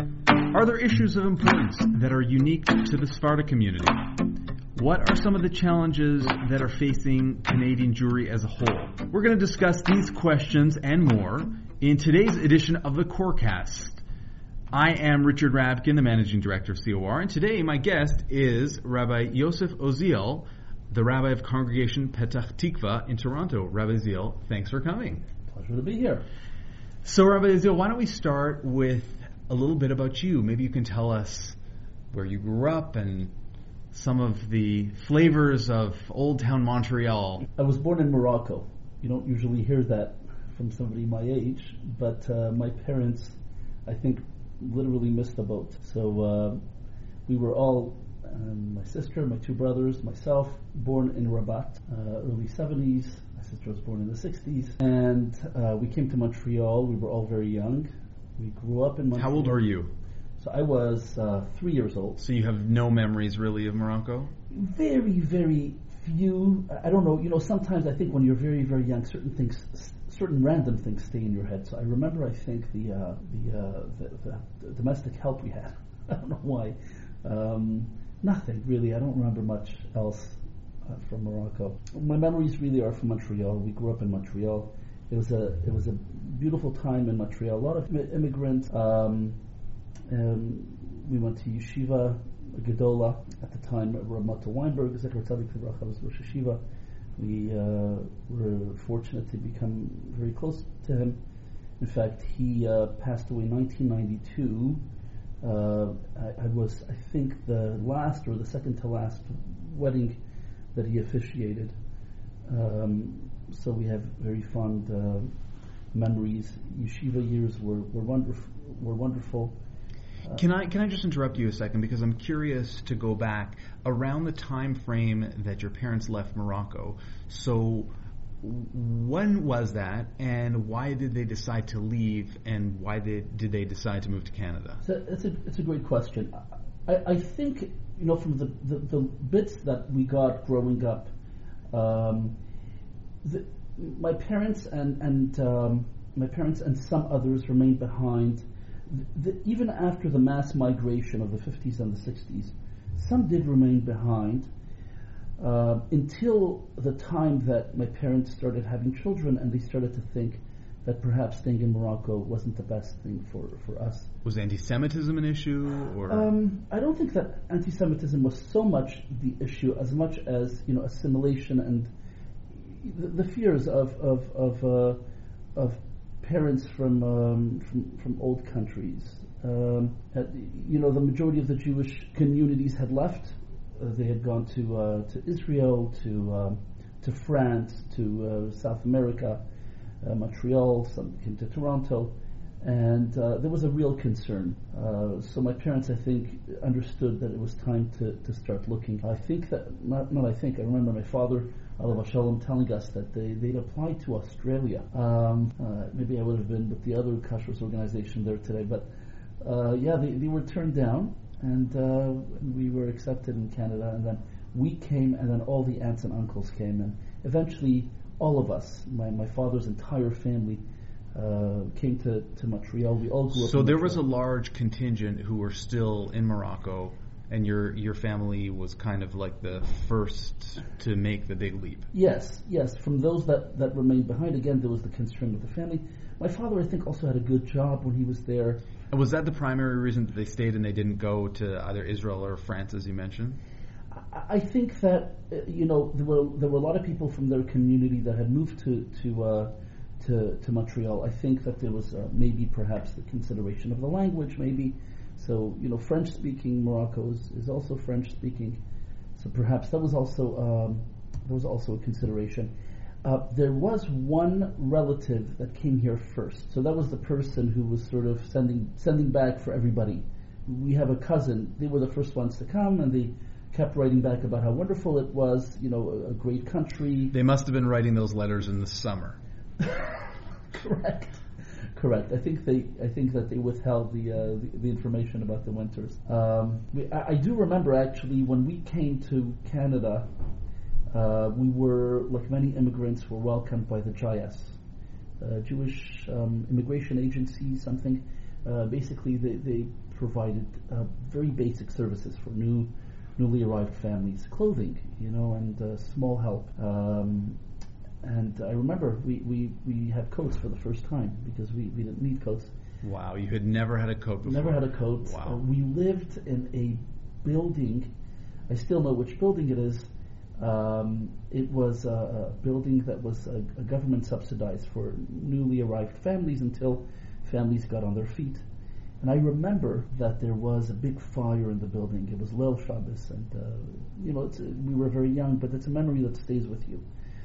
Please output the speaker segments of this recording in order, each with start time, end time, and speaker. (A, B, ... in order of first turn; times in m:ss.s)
0:00.4-0:14.0 A
0:14.7-0:25.2 A
0:25.5-0:26.2 B
0:27.0-0:31.6 A
0:32.1-0:33.3 A
0:33.9-0:37.5 A
0:37.6-0:46.6 B
0:47.3-0:59.6 B
0:59.1-0:59.9 A
1:00.4-1:02.2 B
1:02.2-1:04.3 A
1:04.5-1:29.4 B
1:30.1-1:36.6 B
1:37.2-1:41.2 B
1:41.8-1:44.8 B
1:45.4-1:50.2 B
1:50.7-1:51.8 B
1:52.4-1:55.3 B
1:55.9-1:59.6 B
2:00.3-2:14.8 A
2:14.8-2:21.1 B
2:21.7-2:22.4 B
2:23.2-2:34.5 B
2:35.4-2:44.1 B
2:44.2-2:46.3 A
2:46.0-2:51.9 B
2:52.5-2:55.0 B
2:55.5-3:09.4 B
3:10.0-3:28.9 B
3:29.4-3:40.6 B
3:41.1-3:44.0 B
3:43.3-3:51.9 A
3:51.9-3:58.6 B
3:58.9-4:03.4 A
4:03.9-4:18.6 B
4:19.2-4:22.5 B
4:23.0-4:37.1 B
4:37.1-4:39.2 A
4:39.6-4:41.2 B
4:41.7-4:50.1 B
4:50.9-4:54.6 B
4:55.2-5:07.4 B
5:08.0-5:12.5 B
5:12.8-5:15.4 A
5:14.2-5:17.9 B
5:18.5-5:28.4 B
5:29.0-5:36.8 B